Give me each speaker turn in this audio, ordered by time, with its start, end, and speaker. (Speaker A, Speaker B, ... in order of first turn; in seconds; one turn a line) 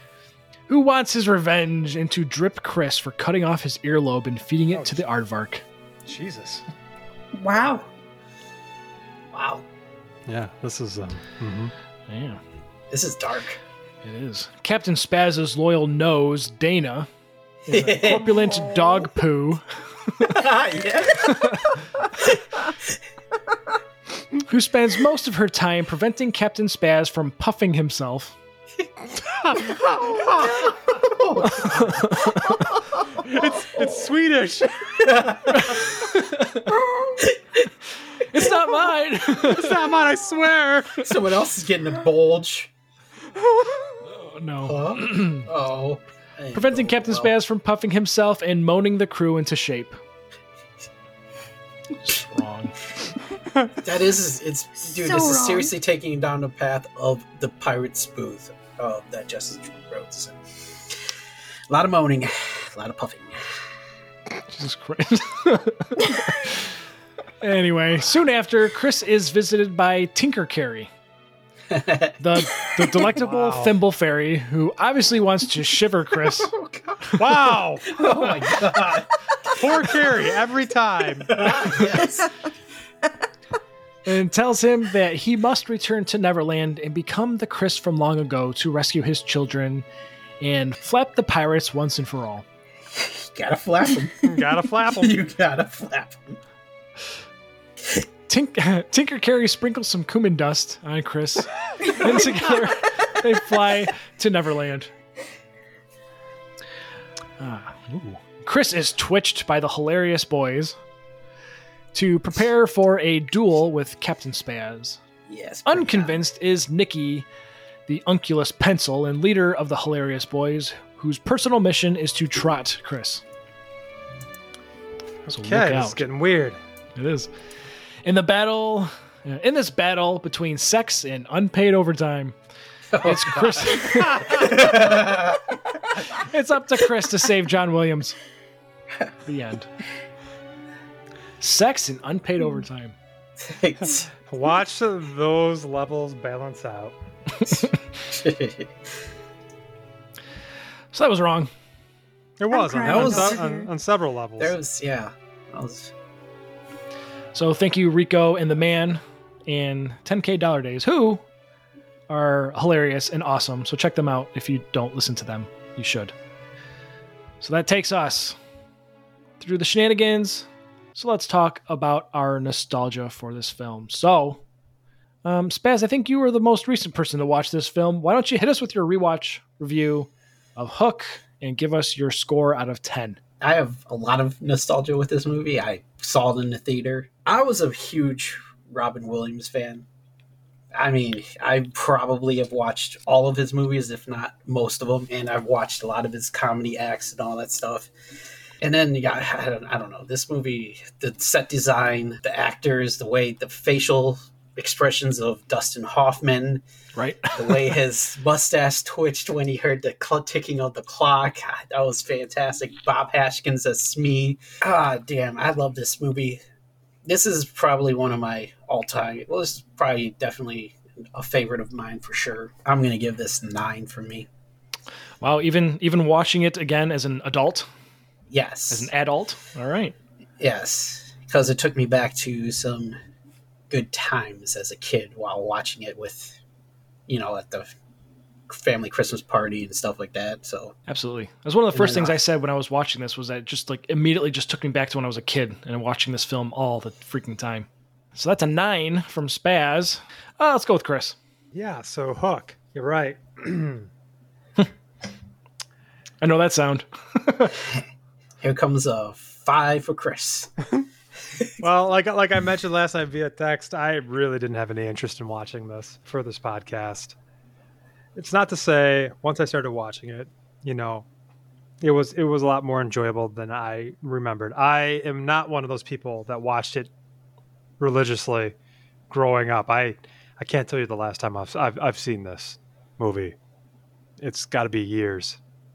Speaker A: 0.7-5.6
Speaker B: 4.7-5.0
Speaker B: 6.0-6.6
Speaker C: 7.3-7.8
Speaker D: 9.3-9.6
Speaker B: 10.3-11.7
Speaker A: 12.1-12.4
Speaker D: 12.9-13.6
Speaker A: 14.0-17.1
Speaker A: 17.7-20.4
Speaker D: 17.7-18.5
Speaker D: 20.2-22.9
Speaker A: 21.3-21.7
Speaker A: 24.5-28.4
Speaker B: 29.4-30.3
Speaker D: 30.1-32.3
Speaker A: 31.4-32.6
Speaker B: 33.2-35.4
Speaker D: 35.0-35.7
Speaker A: 35.6-36.7
Speaker D: 37.1-37.7
Speaker A: 38.2-39.8
Speaker B: 39.4-41.1
Speaker D: 41.0-42.7
Speaker A: 44.0-45.5
Speaker D: 44.6-47.3
Speaker A: 46.5-50.0
Speaker A: 52.0-52.8
Speaker D: 53.8-61.0
Speaker C: 54.8-55.7
Speaker D: 61.7-63.5
Speaker A: 64.5-66.7
Speaker A: 67.4-70.9
Speaker D: 71.7-72.2
Speaker A: 72.2-76.5
Speaker B: 73.2-73.7
Speaker D: 76.5-77.1
Speaker B: 77.2-78.0
Speaker D: 77.8-79.6
Speaker B: 79.5-81.5
Speaker D: 81.3-82.3
Speaker A: 84.0-89.8
Speaker A: 90.4-92.4
Speaker D: 92.9-96.4
Speaker B: 94.2-95.2
Speaker A: 98.3-104.9
Speaker A: 107.4-110.8
Speaker A: 111.9-115.0
Speaker D: 115.3-116.2
Speaker A: 115.7-117.2
Speaker A: 117.9-123.2
Speaker B: 125.3-126.6
Speaker A: 125.3-126.1
Speaker A: 127.0-127.3
Speaker A: 128.0-132.3
Speaker D: 132.9-135.5
Speaker A: 133.0-134.7
Speaker B: 133.9-134.5
Speaker A: 136.1-138.2
Speaker A: 139.2-139.7
Speaker A: 141.4-142.9
Speaker D: 143.4-144.1
Speaker B: 144.3-146.9
Speaker D: 147.4-148.7
Speaker A: 150.9-151.5
Speaker B: 152.4-154.5
Speaker C: 152.5-153.7
Speaker D: 152.8-153.4
Speaker D: 154.4-155.9
Speaker A: 157.3-161.2
Speaker A: 162.1-166.1
Speaker A: 167.4-168.4
Speaker A: 169.4-174.4
Speaker A: 175.2-183.2
Speaker D: 183.4-189.8
Speaker D: 190.7-197.9
Speaker D: 198.6-206.6
Speaker A: 206.9-207.7
Speaker D: 207.3-216.4
Speaker D: 217.0-224.3
Speaker A: 225.2-227.7
Speaker D: 228.3-228.9
Speaker A: 228.7-229.9
Speaker D: 230.4-232.9
Speaker D: 233.7-236.4
Speaker D: 237.1-237.7
Speaker D: 238.5-240.7
Speaker A: 240.9-251.2
Speaker D: 241.7-242.2
Speaker B: 251.5-253.9
Speaker A: 256.2-257.6
Speaker D: 258.4-260.5
Speaker B: 261.6-267.1
Speaker B: 268.1-271.1
Speaker B: 271.8-276.9
Speaker B: 277.8-278.5
Speaker B: 279.1-283.3
Speaker B: 284.2-285.4